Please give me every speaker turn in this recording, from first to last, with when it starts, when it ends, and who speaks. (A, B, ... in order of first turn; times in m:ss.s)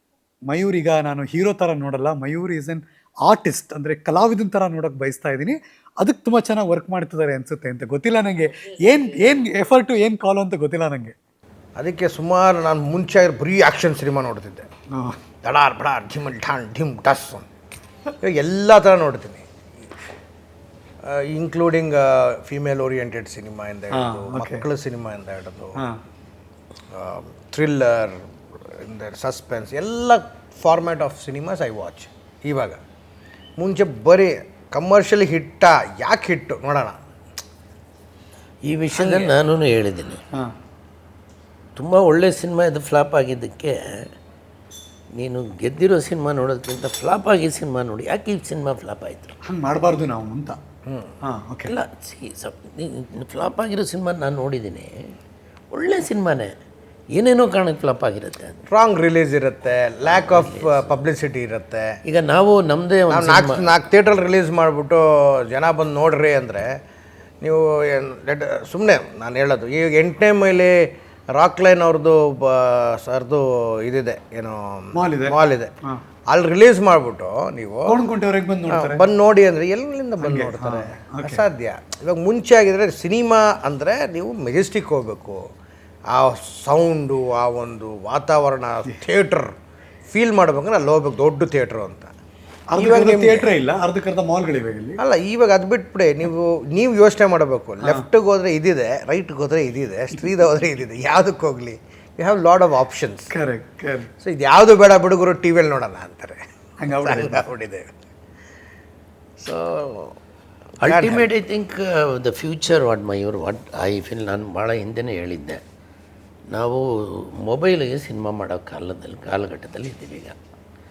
0:00.4-0:11.1 A
0:11.8-0:14.7 B
0:15.4-0:17.5 B
0:18.2-0:19.4 B
0:21.0-0:25.8 B
0:23.9-0:24.6 A
0:26.9-0:32.8 B
0:33.6-0:37.0 B
0:38.6-0:40.2 C
0:38.9-0:39.4 B
0:41.8-0:44.0 C
0:45.2-0:49.4 C
0:49.4-0:50.6 A
0:50.8-0:51.2 B
0:51.2-0:51.7 A
0:51.7-0:55.0 C
0:55.7-0:56.5 C
0:57.1-0:58.6 C
0:58.7-1:01.9 B
1:00.0-1:01.0 C
1:02.0-1:03.7 C
1:03.1-1:06.7 B
1:07.4-1:15.7 B
1:14.9-1:16.0 A
1:16.3-1:18.0 B
1:17.9-1:19.0 A
1:18.7-1:25.4 B
1:20.2-1:21.4 A
1:26.1-1:29.6 B
1:30.1-1:32.1 B
1:32.7-1:35.0 A
1:32.8-1:33.5 B
1:35.0-1:43.3 B
1:43.3-1:44.1 A
1:44.2-1:47.9 B
1:46.8-1:47.5 A
1:49.4-1:50.1 B
1:50.8-1:55.6 C
1:50.8-1:51.3 B
1:56.5-2:00.4 C